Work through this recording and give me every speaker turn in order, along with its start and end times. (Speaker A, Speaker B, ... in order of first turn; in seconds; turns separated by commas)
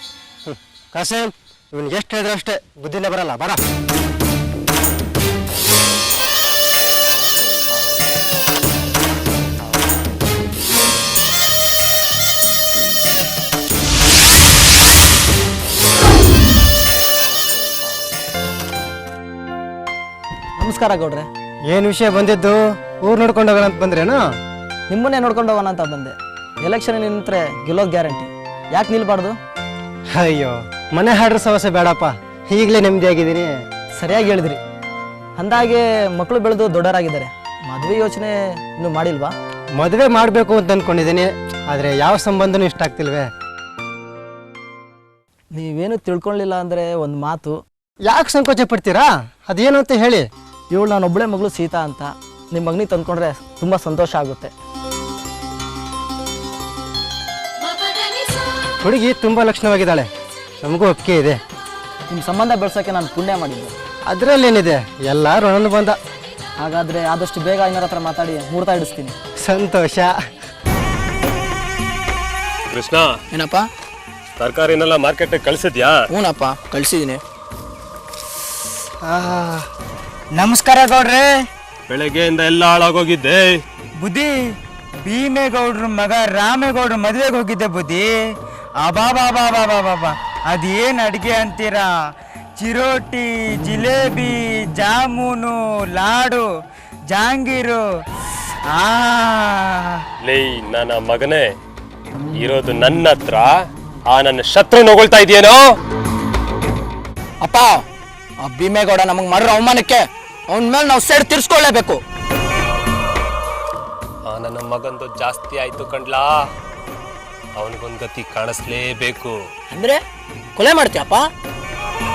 Speaker A: 0.5-3.6, Speaker B: 20.6-21.3, Speaker A: 21.7-24.2, Speaker B: 24.9-29.4, Speaker A: 30.1-33.5, Speaker B: 34.0-34.6, Speaker B: 35.4-39.3, Speaker A: 39.8-43.3, Speaker B: 45.5-47.6, Speaker A: 48.0-50.3, Speaker B: 50.7-54.5, Speaker A: 58.8-60.1, Speaker A: 60.6-61.4, Speaker B: 62.1-63.7, Speaker A: 64.1-66.0, Speaker B: 66.6-69.1, Speaker A: 69.4-70.1, Speaker C: 72.7-73.2, Speaker D: 73.3-73.7, Speaker C: 74.4-76.0, Speaker D: 76.1-77.2, Speaker A: 79.0-79.6, Speaker E: 80.3-81.3, Speaker C: 81.9-83.6, Speaker E: 84.0-84.3, Speaker E: 85.0-88.2, Speaker E: 88.8-92.0, Speaker E: 92.6-96.5, Speaker E: 97.1-97.8, Speaker E: 98.7-99.9, Speaker C: 100.2-101.5, Speaker C: 102.3-103.5, Speaker C: 104.1-105.6, Speaker D: 107.4-107.8, Speaker D: 108.4-112.0, Speaker C: 114.2-116.3, Speaker C: 117.6-119.3, Speaker D: 119.7-120.0, Speaker D: 120.5-121.2